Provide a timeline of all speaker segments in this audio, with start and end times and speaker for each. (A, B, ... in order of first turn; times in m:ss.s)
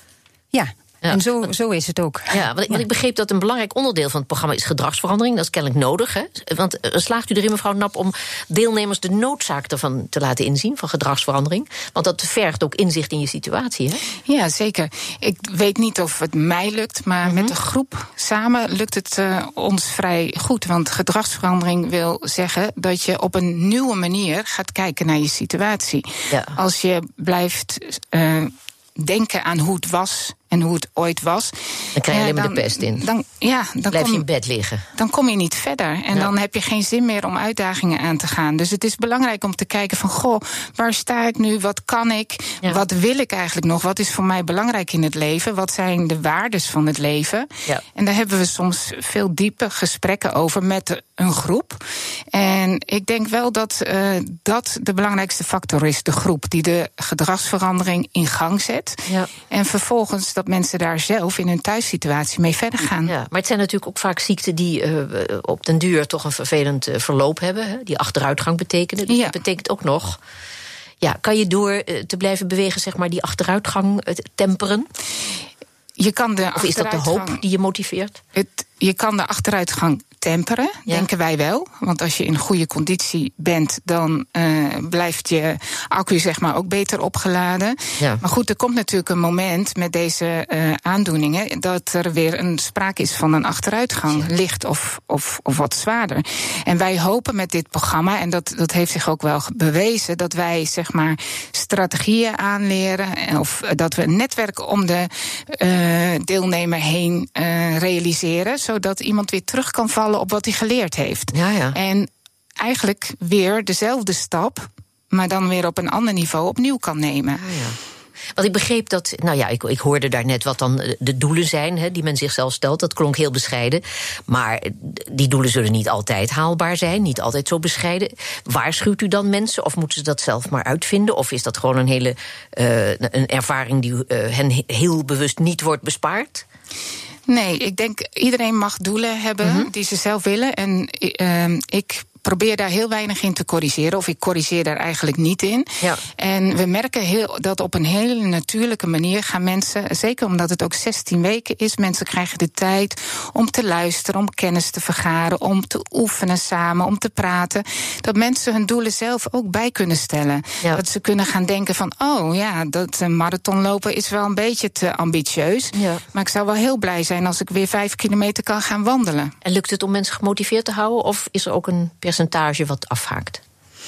0:00.5-0:02.8 A
0:02.3-0:14.0 B
0:14.2-0:34.2 C
0:17.2-0:17.5 B
0:26.3-0:26.6 B
0:31.9-0:33.0 B
0:33.9-0:34.8 B
0:35.0-0:51.8 C
0:52.3-1:03.1 C
0:59.1-0:59.3 B
1:03.0-1:10.2 B
1:09.1-1:09.4 C
1:11.0-1:14.9 B
1:16.0-1:17.4 C
1:16.6-1:18.2 B
1:18.3-1:57.5 C
1:51.3-1:51.8 B
1:57.3-1:57.8 B
1:58.3-2:16.4 B
2:17.3-2:49.3 C
2:19.4-2:19.7 B
2:45.7-2:46.0 B
2:49.4-2:53.4 B